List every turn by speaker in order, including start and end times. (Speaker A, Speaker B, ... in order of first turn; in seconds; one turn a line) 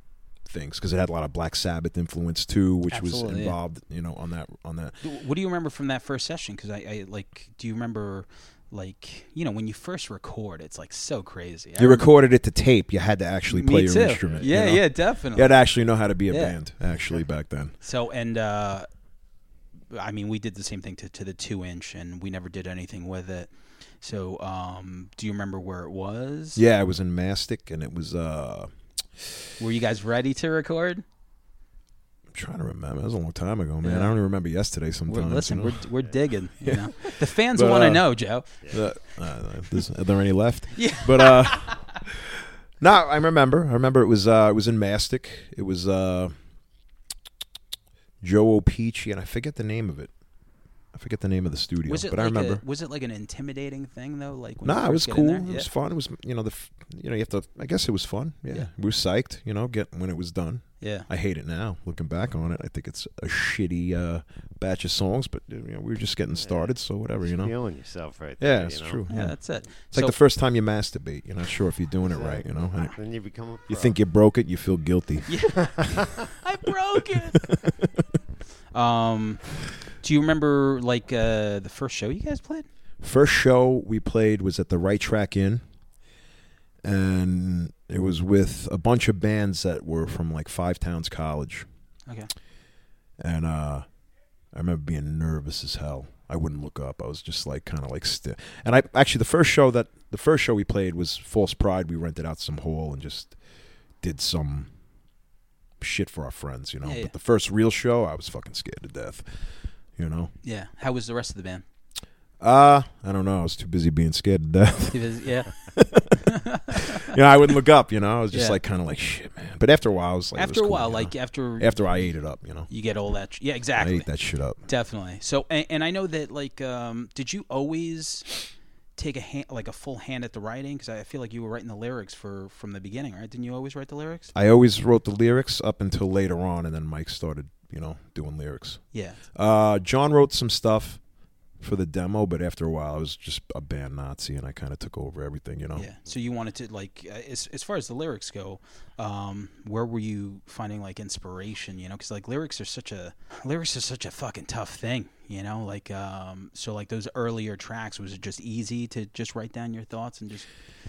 Speaker A: 0.5-5.0
Speaker B: 2.9-3.6
Speaker B: 5.0-12.1
Speaker A: 11.8-17.8
Speaker B: 13.5-15.5
Speaker C: 14.2-14.5
Speaker B: 16.3-16.6
Speaker B: 17.8-18.9
Speaker B: 19.9-23.5
Speaker B: 24.0-26.6
Speaker A: 26.6-28.7
Speaker B: 29.6-31.0
Speaker A: 32.3-35.9
Speaker B: 33.8-34.1
Speaker B: 35.1-38.5
Speaker A: 36.6-38.1
Speaker A: 38.7-46.3
Speaker B: 40.8-41.8
Speaker A: 48.2-50.1
Speaker A: 50.9-52.6
Speaker B: 51.9-55.7
Speaker A: 54.6-67.5
Speaker B: 60.8-61.1
Speaker C: 66.4-69.0
Speaker A: 68.4-73.0
Speaker B: 69.1-70.2
Speaker C: 72.0-73.9
Speaker A: 73.7-75.7
Speaker B: 75.3-77.6
Speaker C: 75.6-76.1
Speaker A: 77.2-77.9
Speaker B: 78.7-79.4
Speaker B: 80.0-82.7
Speaker A: 83.0-85.6
Speaker A: 86.8-91.7
Speaker A: 93.2-93.9
Speaker A: 94.5-103.4
Speaker A: 104.0-104.7
Speaker A: 105.8-109.2
Speaker B: 106.8-107.1
Speaker A: 110.0-110.3
Speaker B: 110.4-111.7
Speaker A: 112.4-115.0
Speaker B: 114.9-115.6
Speaker A: 115.6-122.7
Speaker B: 116.3-117.1
Speaker B: 118.3-118.6
Speaker B: 120.4-122.1
Speaker B: 122.7-124.1
Speaker A: 123.8-124.6
Speaker B: 124.7-134.3
Speaker A: 134.3-138.8
Speaker B: 138.9-139.2
Speaker A: 139.3-141.0
Speaker A: 141.6-145.9
Speaker B: 145.8-160.5